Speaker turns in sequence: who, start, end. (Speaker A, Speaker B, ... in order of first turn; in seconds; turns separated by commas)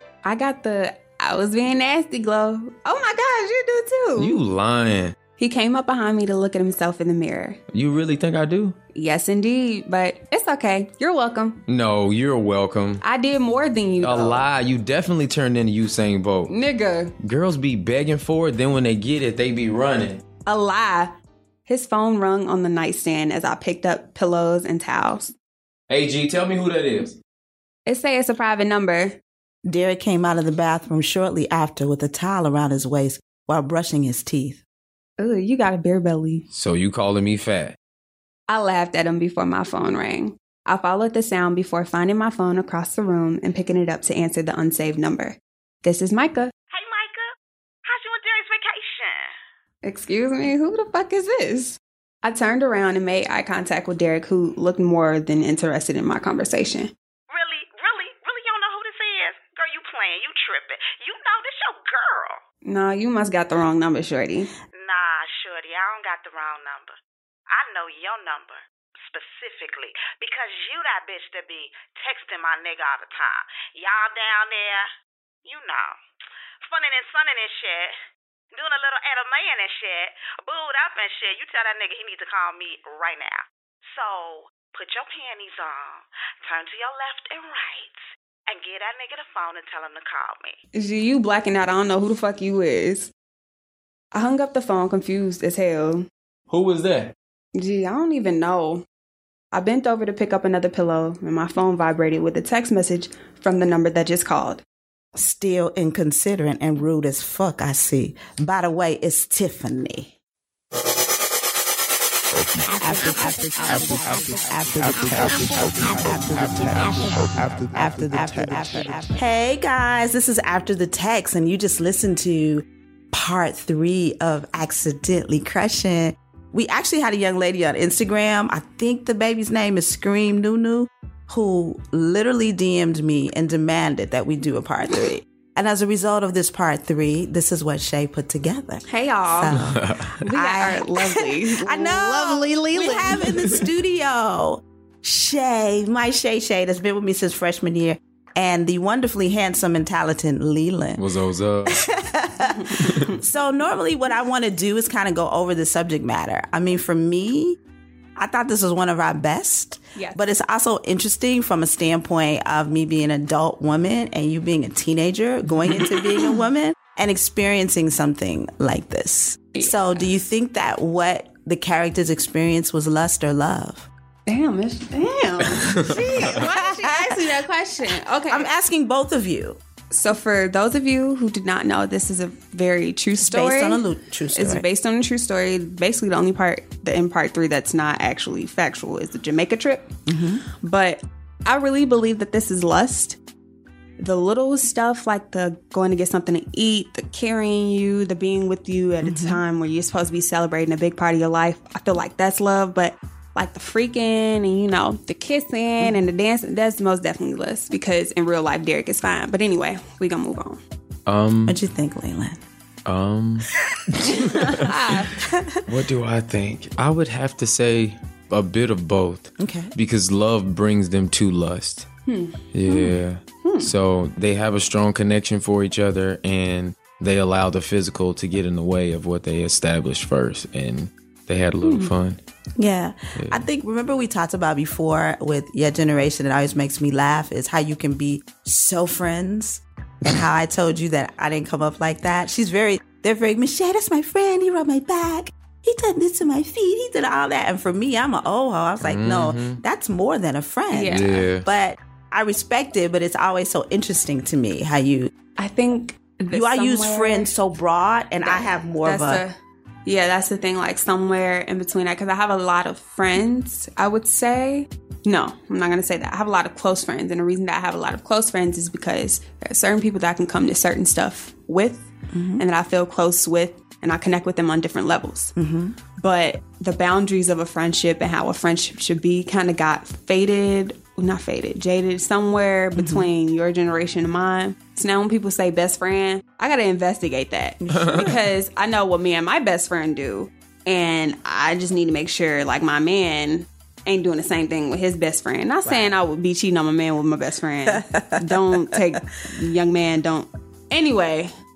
Speaker A: 0.2-4.4, Speaker B: 4.2-5.2, Speaker A: 5.4-7.6, Speaker B: 7.7-8.8, Speaker A: 8.9-11.6, Speaker B: 11.7-13.0, Speaker A: 13.0-14.4, Speaker B: 14.0-16.5, Speaker A: 16.5-17.1, Speaker B: 17.2-20.2, Speaker A: 20.5-21.1, Speaker A: 21.7-25.3, Speaker B: 25.9-27.2, Speaker A: 27.9-29.2, Speaker C: 29.7-34.6, Speaker A: 35.2-36.5, Speaker B: 36.5-37.8, Speaker A: 38.5-46.5, Speaker D: 46.7-47.4, Speaker D: 47.9-49.3, Speaker A: 49.8-56.9, Speaker D: 57.3-62.4, Speaker A: 62.6-64.5, Speaker D: 64.7-67.0, Speaker D: 67.5-74.9, Speaker D: 75.5-76.0, Speaker D: 76.6-78.0, Speaker D: 78.5-90.6, Speaker A: 90.7-93.1, Speaker A: 94.1-96.1, Speaker B: 96.5-97.1, Speaker A: 97.5-98.8, Speaker A: 99.5-104.6, Speaker C: 105.2-110.1, Speaker C: 112.7-151.0, Speaker A: 138.9-139.7, Speaker B: 139.5-140.1, Speaker A: 140.2-143.6, Speaker B: 151.0-151.9, Speaker C: 151.7-157.6, Speaker A: 152.4-153.2, Speaker B: 152.8-153.1, Speaker C: 158.2-173.9, Speaker A: 160.0-160.2, Speaker A: 169.6-170.1, Speaker A: 174.3-178.5, Speaker C: 175.9-177.2, Speaker C: 178.3-179.6, Speaker A: 179.9-189.9, Speaker C: 183.2-184.7, Speaker C: 190.1-190.4, Speaker A: 190.6-193.2, Speaker A: 194.0-210.6, Speaker C: 199.0-199.4, Speaker B: 211.1-211.6, Speaker C: 211.5-212.4, Speaker B: 212.9-214.8, Speaker A: 214.0-215.2, Speaker C: 215.2-215.6, Speaker B: 215.7-221.9, Speaker C: 219.4-219.7, Speaker A: 222.1-223.7, Speaker B: 222.5-232.2, Speaker A: 231.6-231.9, Speaker C: 232.6-255.1, Speaker B: 233.2-233.4, Speaker B: 248.8-249.6, Speaker A: 250.7-251.2, Speaker B: 250.9-251.4, Speaker A: 255.4-257.3, Speaker C: 256.3-259.2, Speaker A: 258.2-259.4, Speaker A: 259.9-275.3, Speaker C: 272.1-272.4, Speaker C: 275.4-275.8, Speaker A: 276.0-301.3, Speaker C: 282.8-283.1, Speaker C: 287.6-288.1, Speaker B: 287.7-288.1